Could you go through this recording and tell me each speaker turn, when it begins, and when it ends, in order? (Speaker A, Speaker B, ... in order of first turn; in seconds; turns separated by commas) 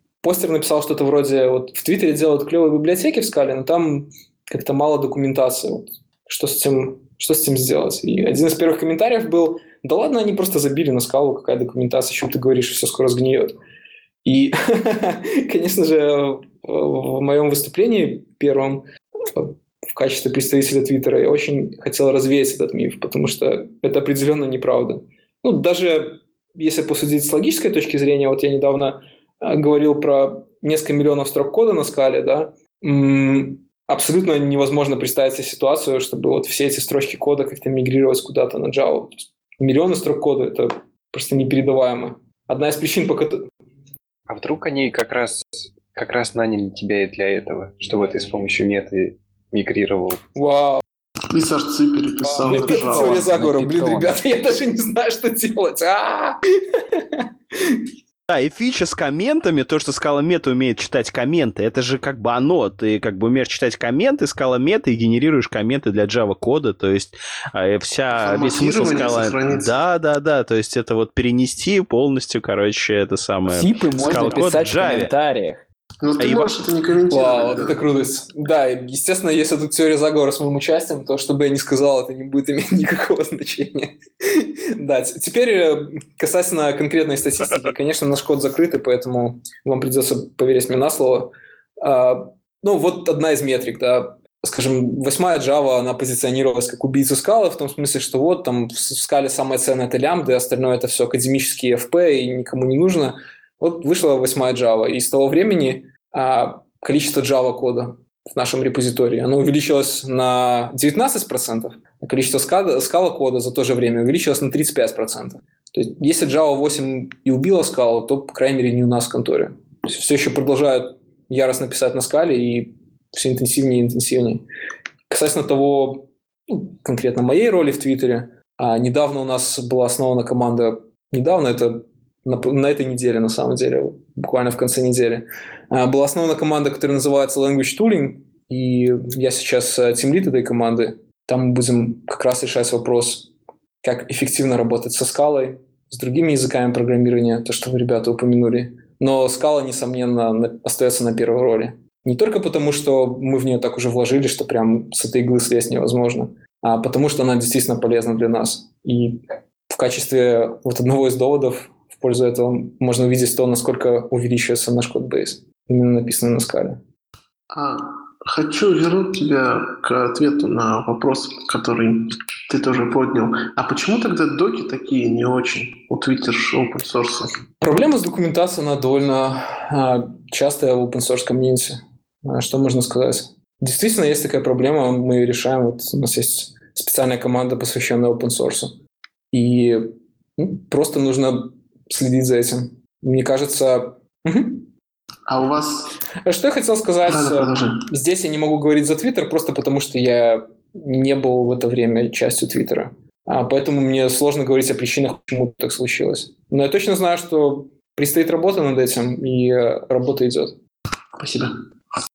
Speaker A: 0.2-13.5, Speaker A: 14.2-18.8, Speaker A: 19.3-43.5, Speaker B: 44.3-50.2, Speaker A: 50.4-50.8, Speaker C: 51.3-53.4, Speaker A: 52.4-57.8, Speaker D: 52.5-54.2, Speaker E: 58.3-75.1, Speaker C: 68.2-69.8, Speaker D: 73.5-75.6, Speaker A: 74.0-74.5, Speaker C: 76.0-77.8, Speaker E: 76.2-76.6, Speaker A: 77.1-124.4, Speaker A: 125.1-143.3, Speaker A: 143.8-166.8, Speaker C: 167.5-177.3, Speaker A: 177.6-188.7, Speaker A: 189.3-194.7, Speaker C: 195.3-195.9, Speaker A: 196.2-210.6, Speaker C: 197.1-197.8, Speaker C: 211.2-211.6